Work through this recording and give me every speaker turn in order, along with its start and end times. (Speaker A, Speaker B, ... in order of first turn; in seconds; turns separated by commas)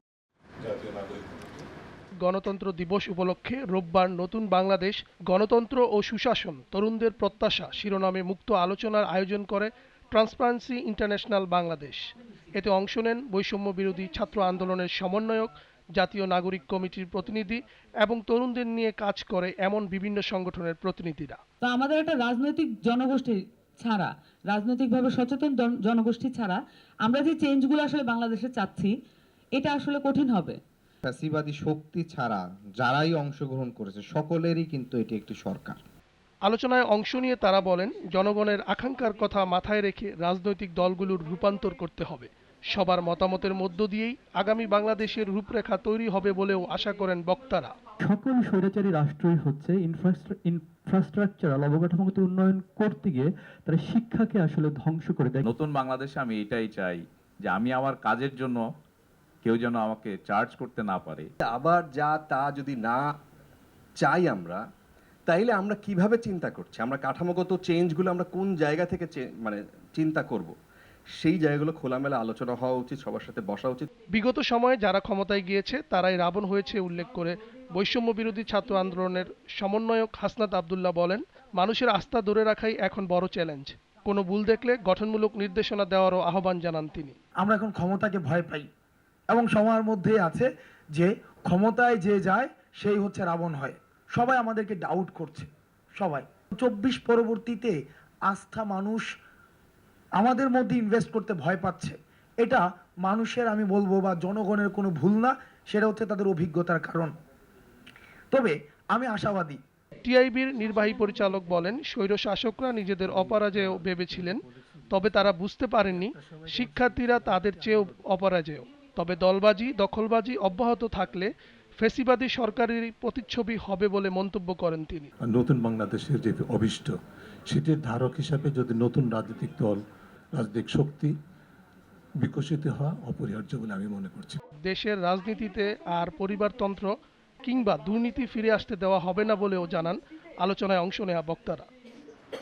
Speaker A: 0.6-1.6, Speaker B: 2.2-21.4, Speaker C: 21.6-28.9, Speaker C: 29.6-30.6, Speaker D: 31.1-35.8, Speaker B: 36.5-47.7, Speaker E: 48.0-55.5, Speaker F: 55.4-58.6, Speaker F: 59.4-61.3, Speaker G: 61.5-63.0, Speaker G: 64.0-64.6, Speaker G: 65.3-70.5, Speaker G: 71.2-73.9, Speaker B: 74.2-87.1, Speaker H: 87.4-88.7, Speaker H: 89.3-97.8, Speaker H: 98.3-99.1, Speaker H: 100.2-107.1, Speaker H: 108.3-109.6, Speaker B: 110.0-125.1, Speaker A: 115.9-117.9, Speaker A: 125.2-127.0, Speaker A: 127.5-131.1, Speaker A: 132.2-134.4, Speaker B: 134.7-141.7